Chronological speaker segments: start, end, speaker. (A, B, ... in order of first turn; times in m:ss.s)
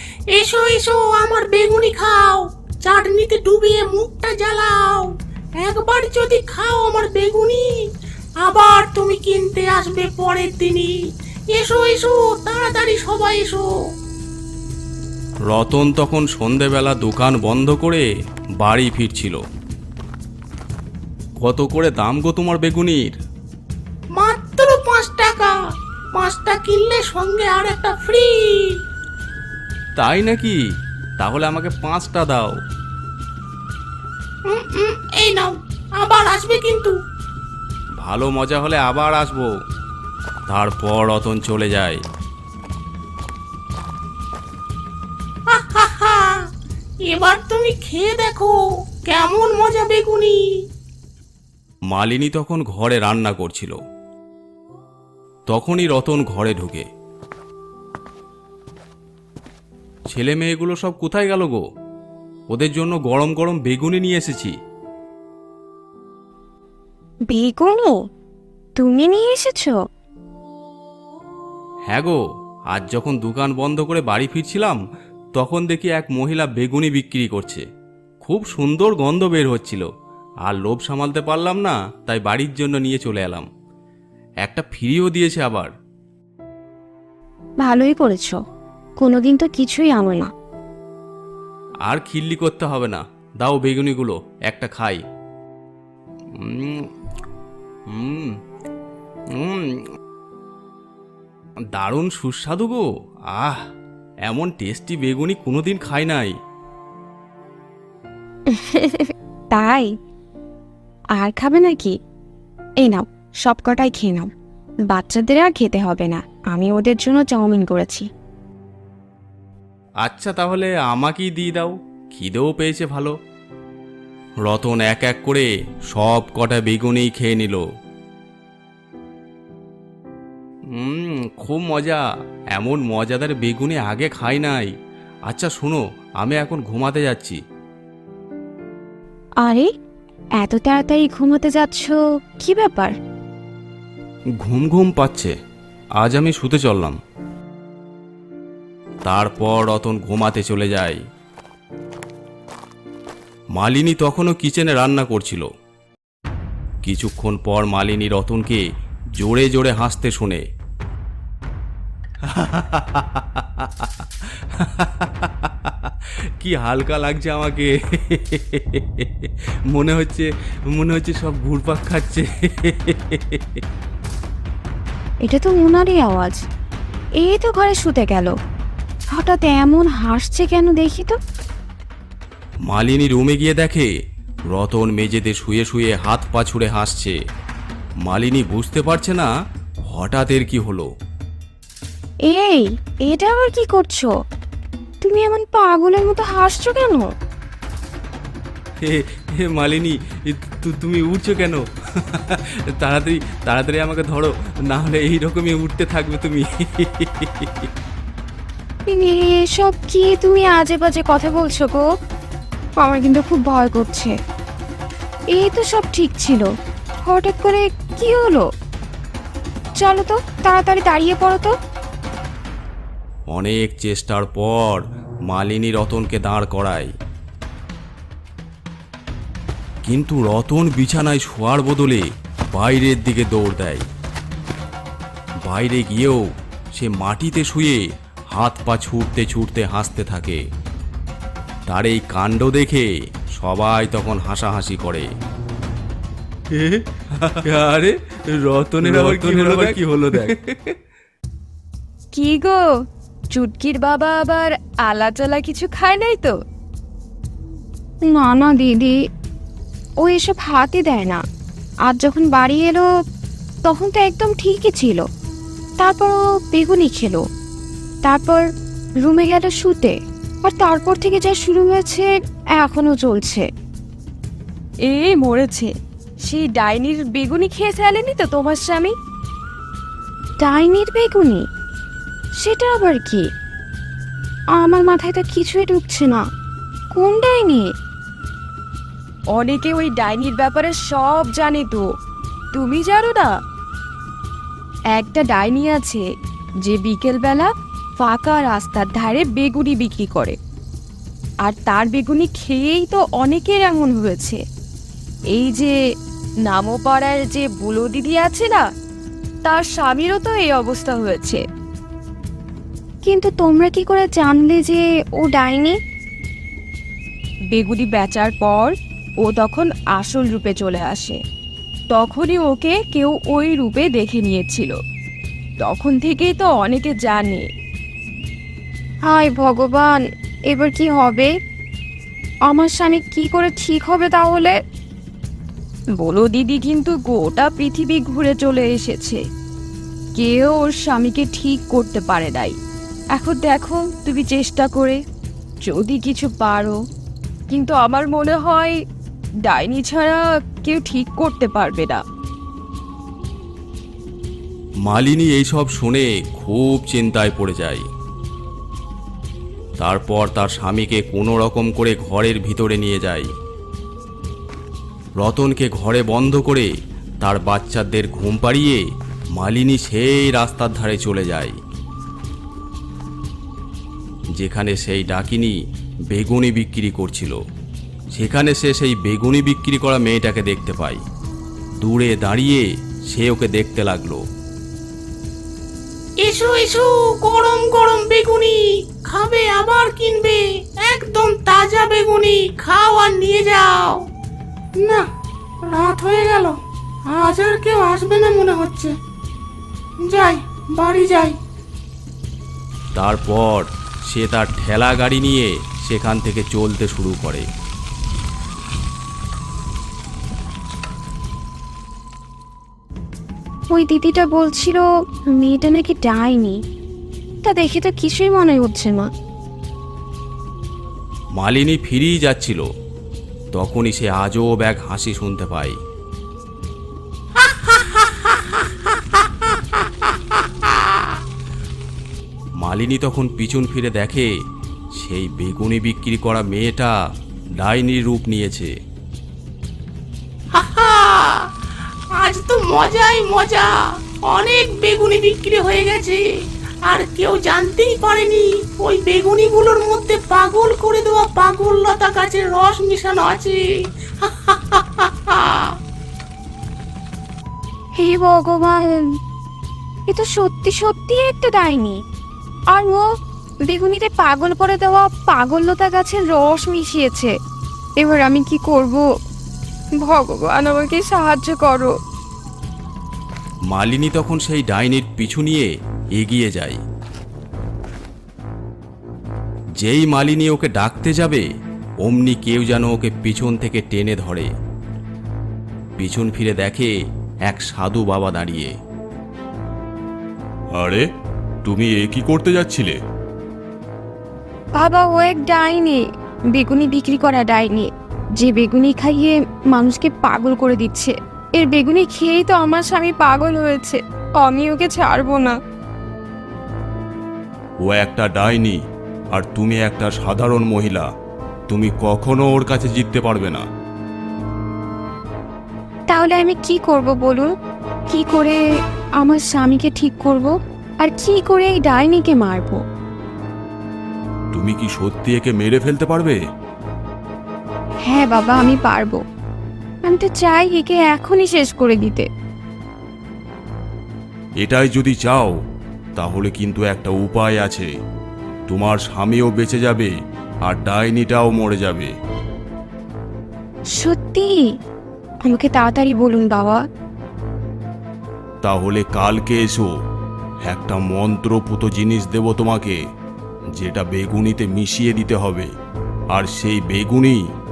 0:00.3-0:07.8 A
0:08.4-0:10.9 A
0:11.5-0:13.7 A
0:15.5-0:18.1 B
0:18.6-0:19.4 B
0:21.4-0:23.2 B
0:24.2-0:25.6 A
0:26.1-0:28.8 A
0:30.0-0:30.6 B
0:31.2-0:32.6 B
0:34.5-0:37.0 A
0:38.0-0:39.5 B
0:40.5-0:42.0 B
0:45.5-0:46.4 A
0:47.1-0:50.4 A
0:51.9-0:53.8 B
0:55.5-0:56.9 B
1:00.1-1:01.6 B
1:02.5-1:04.5 B
1:07.3-1:08.0 C
1:08.8-1:09.8 C
1:11.9-1:12.2 B
1:12.7-1:14.8 B
1:15.4-1:17.6 B
1:18.2-1:19.9 B
1:20.5-1:23.5 B
1:24.4-1:25.7 B
1:27.6-1:28.4 C
1:29.0-1:30.3 C
1:31.9-1:35.0 B
1:36.4-1:36.8 B
1:37.9-1:38.3 B
1:39.3-1:39.7 B
1:41.8-1:43.6 B
1:44.3-1:46.3 B
1:48.5-1:49.9 C
1:51.2-1:52.0 C
1:52.8-1:54.3 C
1:54.9-1:58.1 C
2:00.0-2:03.2 B
2:04.4-2:07.6 B
2:10.7-2:12.0 B
2:12.5-2:14.7 B
2:15.3-2:17.4 B
2:19.4-2:19.7 C
2:20.4-2:22.9 C
2:24.4-2:25.3 B
2:26.0-2:27.0 B
2:29.0-2:31.0 B
2:33.6-2:35.5 B
2:36.8-2:38.6 B
2:39.2-2:40.4 B
2:42.2-2:53.6 B
2:55.2-2:56.4 C
2:57.2-2:58.3 C
2:59.2-3:01.2 C
3:02.7-3:03.9 B
3:04.5-3:07.2 B
3:08.0-3:09.3 B
3:09.9-3:10.9 B
3:12.3-3:14.1 C
3:15.0-3:17.1 C
3:18.8-3:27.7 B
3:28.9-3:31.8 C
3:32.8-3:34.1 C
3:35.3-3:36.5 C
3:37.0-3:38.4 C
3:39.8-3:41.5 C
3:43.3-3:46.9 B
3:49.9-3:53.8 B
3:55.4-3:56.2 B
3:56.8-4:00.4 B
4:01.7-4:05.1 B
4:07.4-4:10.7 B
4:12.1-4:12.6 C
4:13.3-4:16.3 C
4:18.1-4:19.0 C
4:20.0-4:21.2 C
4:21.9-4:22.9 C
4:23.7-4:25.0 C
4:25.8-4:27.2 C
4:28.0-4:28.4 C
4:29.0-4:32.1 C
4:32.6-4:33.5 C
4:34.9-4:35.7 C
4:36.3-4:38.9 C
4:40.4-4:41.4 C
4:42.4-4:43.2 C
4:44.6-4:46.2 C
4:47.0-4:47.7 C
4:49.3-4:51.8 C
4:52.5-4:53.3 C
4:54.9-4:56.0 C
4:56.6-5:00.4 C
5:01.4-5:04.4 C
5:05.3-5:05.8 C
5:06.5-5:08.6 C
5:09.4-5:11.4 C
5:13.0-5:15.8 C
5:17.5-5:21.2 C
5:21.9-5:24.8 C
5:25.6-5:27.5 C
5:29.1-5:31.3 C
5:32.5-5:34.5 C
5:36.0-5:39.2 C
5:40.2-5:42.6 C
5:43.2-5:45.0 C
5:45.7-5:46.8 C
5:47.5-5:48.8 C
5:49.5-5:52.0 C
5:54.9-5:57.8 B
5:59.8-6:03.3 B
6:05.2-6:06.7 B
6:07.2-6:08.8 B
6:09.4-6:11.6 B
6:14.4-6:15.6 B
6:16.1-6:17.4 B
6:18.2-6:21.0 B
6:21.8-6:24.2 B
6:26.2-6:34.0 A
6:34.8-6:35.0 A
6:35.7-6:39.0 A
6:40.0-6:41.4 A
6:43.0-6:47.5 B
6:53.7-6:54.8 C
6:55.3-6:56.6 C
6:57.4-6:59.1 C
7:01.4-7:02.6 B
7:03.5-7:05.8 B
7:07.4-7:11.1 A
7:12.6-7:14.3 B
7:15.0-7:17.0 B
7:17.6-7:18.7 B
7:20.6-7:21.5 A
7:22.2-7:26.2 A
7:26.8-7:33.7 A
7:34.2-7:35.8 A
7:38.0-7:38.8 C
7:40.1-7:42.0 C
7:42.7-7:43.0 C
7:43.7-7:47.3 C
7:48.0-7:49.0 C
7:50.0-7:51.9 C
7:53.7-7:56.8 B
7:59.8-8:01.5 B
8:02.0-8:04.5 B
8:06.0-8:06.9 B
8:07.5-8:08.7 B
8:10.8-8:11.0 D
8:11.7-8:12.9 D
8:11.7-8:12.9 B
8:14.8-8:16.0 C
8:16.6-8:25.6 C
8:27.9-8:28.8 B
8:27.9-8:28.6 D
8:29.4-8:30.9 B
8:30.2-8:31.1 D
8:31.7-8:33.6 D
8:31.7-8:33.6 B
8:36.1-8:37.5 C
8:38.1-8:38.6 C
8:39.2-8:40.5 C
8:41.0-8:42.8 C
8:44.5-8:46.4 D
8:48.1-8:49.2 C
8:50.1-8:52.3 C
8:54.6-8:55.6 D
8:56.2-8:57.9 D
8:58.7-9:00.1 D
9:00.6-9:02.1 D
9:04.0-9:04.6 C
9:05.4-9:06.8 C
9:08.6-9:09.9 D
9:10.6-9:13.0 D
9:13.8-9:14.5 B
9:13.8-9:15.7 D
9:16.3-9:16.6 D
9:16.4-9:17.4 B